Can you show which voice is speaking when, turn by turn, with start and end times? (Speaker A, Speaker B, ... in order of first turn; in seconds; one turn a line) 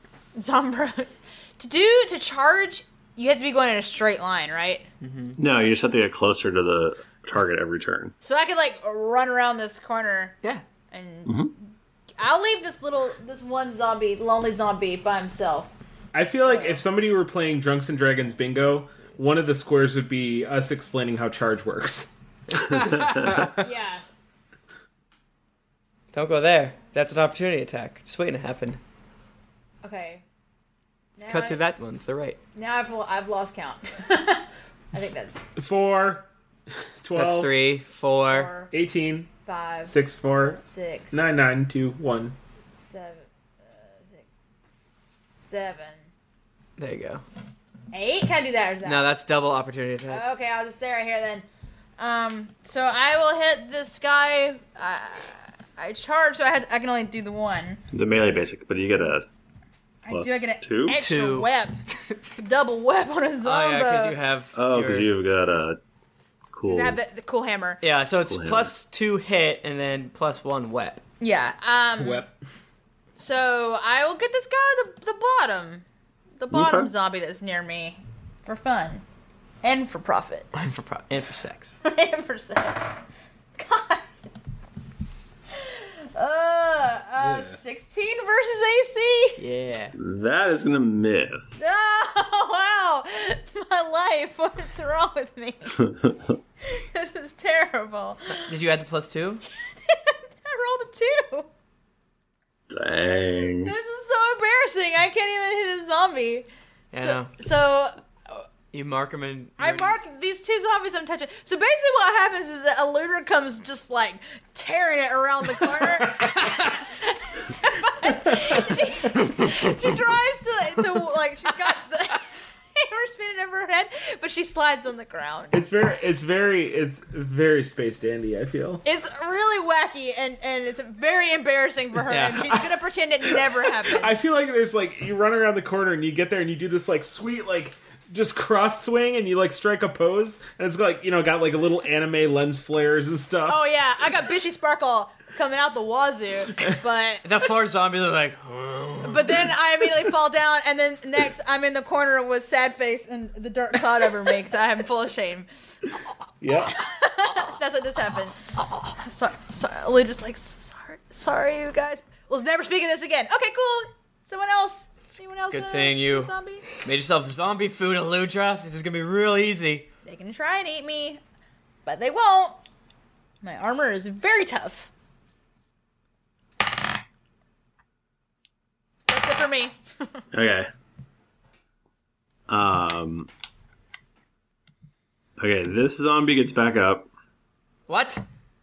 Speaker A: 0.3-4.8
Speaker B: 5.0-5.4
Speaker C: 5.4-8.1
Speaker A: 8.2-10.4
Speaker A: 10.9-11.4
Speaker C: 11.2-11.5
Speaker A: 12.2-15.7
Speaker D: 16.1-22.1
Speaker A: 16.4-16.8
Speaker B: 22.5-23.6
Speaker A: 23.6-24.0
Speaker B: 26.1-28.8
Speaker A: 29.8-30.2
Speaker A: 31.2-31.6
Speaker B: 31.2-32.4
Speaker A: 32.5-35.5
Speaker D: 35.6-36.3
Speaker D: 37.0-37.5
Speaker B: 37.1-38.5
Speaker A: 38.3-38.7
Speaker D: 38.7-39.3
Speaker A: 39.4-39.9
Speaker D: 39.9-40.6
Speaker A: 40.6-41.2
Speaker D: 41.1-42.4
Speaker A: 42.8-46.0
Speaker B: 46.8-47.2
Speaker A: 47.9-49.1
Speaker B: 48.8-50.2
Speaker A: 50.1-51.4
Speaker A: 52.0-57.8
Speaker C: 57.9-59.2
Speaker A: 60.0-61.8
Speaker C: 60.1-61.0
Speaker B: 61.0-61.5
Speaker A: 62.4-64.2
Speaker B: 63.4-65.1
Speaker C: 64.5-65.8
Speaker C: 66.5-67.0
Speaker A: 66.7-67.8
Speaker B: 67.8-71.0
Speaker C: 68.3-68.7
Speaker A: 71.2-72.2
Speaker D: 72.0-72.3
Speaker A: 73.2-75.8
Speaker A: 76.4-79.0
Speaker C: 76.5-76.9
Speaker A: 79.6-80.5
Speaker B: 80.5-81.8
Speaker A: 81.8-82.9
Speaker A: 83.6-84.0
Speaker A: 85.5-89.4
Speaker D: 87.2-87.6
Speaker B: 89.4-89.9
Speaker C: 90.0-91.7
Speaker A: 91.5-95.7
Speaker C: 95.8-96.4
Speaker A: 96.6-98.6
Speaker B: 98.3-99.4
Speaker A: 99.7-101.5
Speaker C: 102.7-103.7
Speaker A: 103.5-108.0
Speaker B: 106.9-107.3
Speaker B: 108.7-110.0
Speaker A: 109.6-125.6
Speaker D: 118.2-118.6
Speaker D: 125.5-128.8
Speaker A: 128.8-134.1
Speaker B: 132.1-132.5
Speaker D: 133.2-143.6
Speaker A: 143.4-147.3
Speaker B: 147.2-149.5
Speaker A: 149.0-155.5
Speaker D: 156.4-156.7
Speaker A: 156.6-158.3
Speaker A: 158.9-166.7
Speaker B: 165.5-169.9
Speaker A: 170.0-171.2
Speaker A: 171.8-172.6
Speaker A: 173.4-174.9
Speaker A: 179.0-179.8
Speaker C: 180.3-180.7
Speaker C: 182.5-183.3
Speaker C: 185.4-187.1
Speaker B: 187.9-188.2